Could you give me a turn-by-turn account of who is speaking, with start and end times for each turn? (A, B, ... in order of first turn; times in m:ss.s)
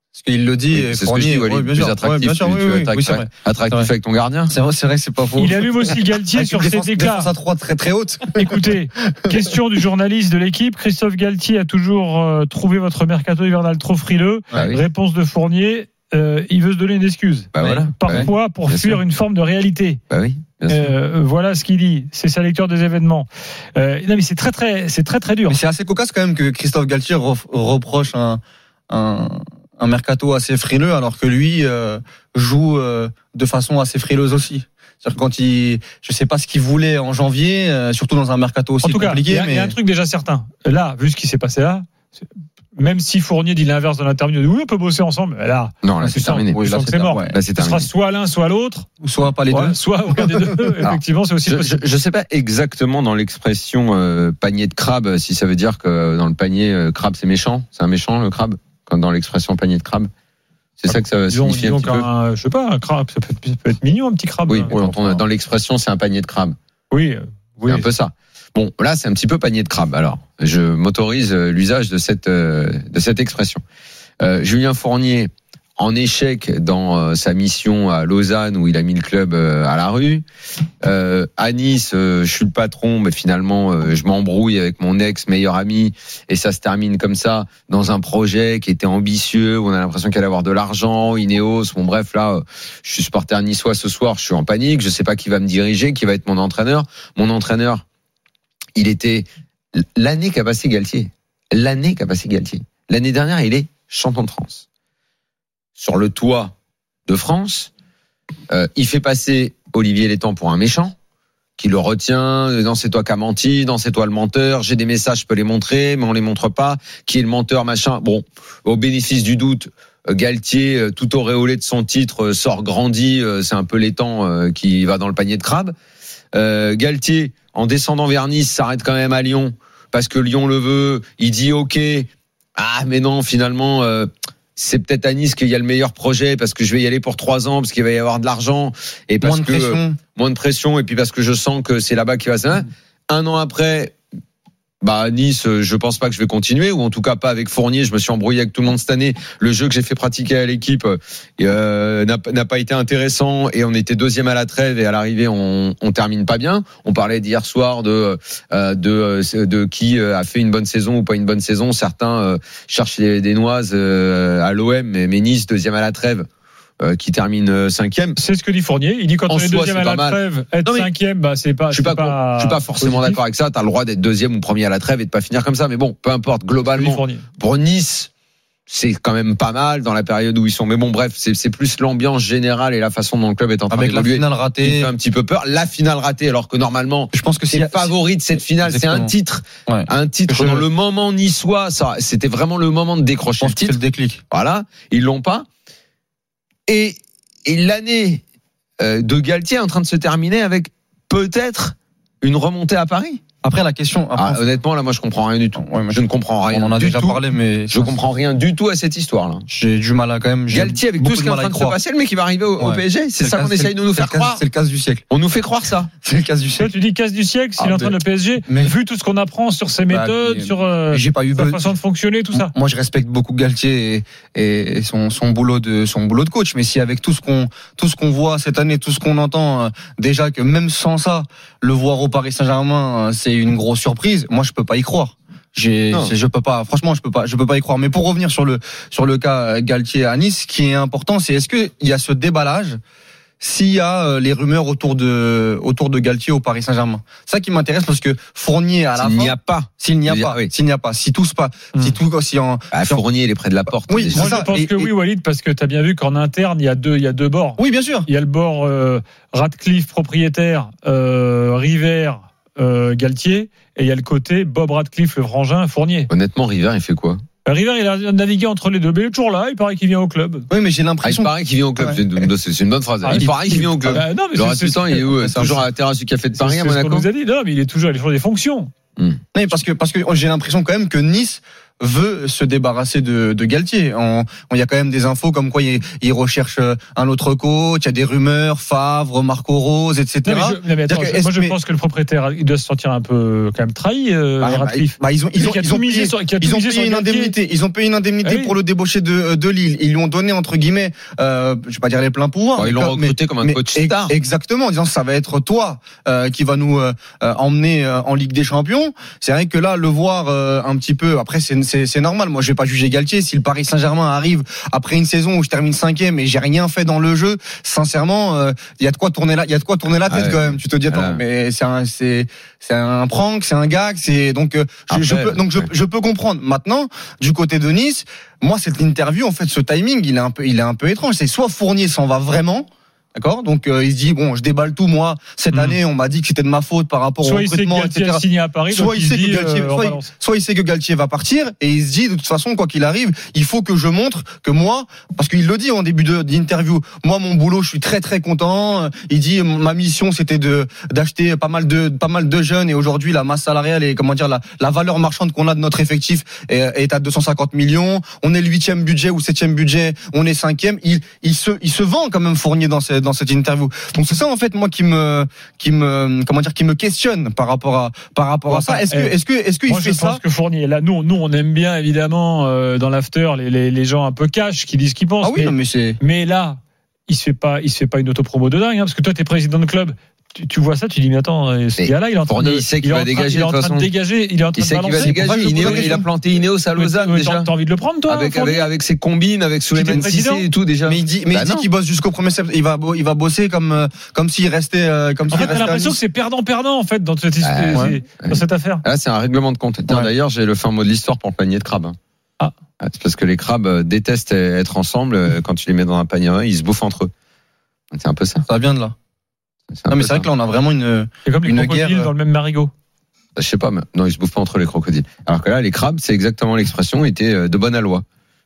0:00.2-0:03.9 A
0:00.7-0:04.5 B
0:04.5-0:08.5 A
0:05.4-0:07.3 C
0:08.4-0:20.0 C
0:14.5-0:14.8 B
0:17.5-0:19.0 B
0:20.1-0:21.0 B
0:20.7-0:25.6 C
0:25.5-0:39.8 A
0:38.8-0:42.2 C
0:42.8-0:48.9 C
0:45.8-0:46.6 B
0:46.0-0:47.4 A
0:47.3-0:47.9 B
0:49.0-0:50.7 A
0:49.5-0:51.8 C
0:50.8-1:00.1 B
1:00.8-1:02.1 B
1:00.8-1:04.8 C
1:04.5-1:06.6 B
1:04.7-1:05.2 A
1:06.9-1:07.9 C
1:07.7-1:13.6 B
1:14.2-1:20.2 B
1:20.8-1:37.8 B
1:38.8-1:44.6 B
1:45.8-1:46.6 B
1:47.1-1:47.7 B
1:48.5-1:51.0 B
1:51.6-2:05.7 B
2:06.3-2:24.0 B
2:19.2-2:20.0 A
2:24.8-2:46.3 B
2:46.8-2:48.2 B
2:48.2-2:53.2 C
2:49.3-2:50.9 B
2:51.7-2:58.1 B
2:56.7-2:57.3 C
2:58.7-3:13.8 B
3:03.7-3:04.9 A
3:07.1-3:07.9 A
3:08.6-3:09.1 A
3:09.7-3:10.7 A
3:13.4-3:14.2 A
3:14.3-3:15.5 B
3:16.7-3:18.2 B
3:18.8-3:23.2 B
3:23.4-3:24.4 A
3:24.2-3:29.5 B
3:25.6-3:28.0 A
3:29.5-3:31.8 A
3:30.5-3:34.4 B
3:32.6-3:35.0 A
3:35.1-3:35.9 B
3:36.0-3:36.7 A
3:36.6-3:42.5 C
3:37.6-3:38.8 A
3:39.9-3:41.7 A
3:42.3-4:02.8 A
4:03.4-4:13.0 A
4:09.0-4:10.5 B
4:12.7-4:14.4 B
4:13.9-4:14.9 A
4:14.1-4:26.1 C
4:17.6-4:18.1 A
4:26.1-4:27.2 B
4:27.4-4:30.5 C
4:30.5-4:32.0 A
4:31.0-4:37.1 B
4:33.0-4:35.5 C
4:33.2-4:34.0 A
4:35.1-4:35.6 A
4:36.3-4:38.7 C
4:39.3-4:51.6 A
4:50.2-4:57.4 C
4:54.4-6:10.2 A
4:58.2-4:58.6 C
5:02.6-5:04.1 B
5:20.1-5:21.2 B
5:24.9-5:25.7 B
5:35.5-5:35.8 C
5:37.2-5:40.1 C
6:08.5-6:26.0 C
6:15.2-6:16.0 A
6:21.8-6:23.9 B
6:24.6-6:27.5 B
6:25.0-6:26.1 A
6:26.7-6:28.7 C
6:28.1-6:31.7 B
6:29.7-6:30.5 C
6:30.8-6:36.0 A
6:35.3-6:38.8 C
6:37.4-6:42.0 B
6:42.8-6:47.1 B
6:47.9-6:48.5 B
6:48.5-6:48.9 A
6:49.7-6:50.3 B
6:49.9-6:52.1 A
6:51.2-6:52.7 C
6:53.4-6:58.0 B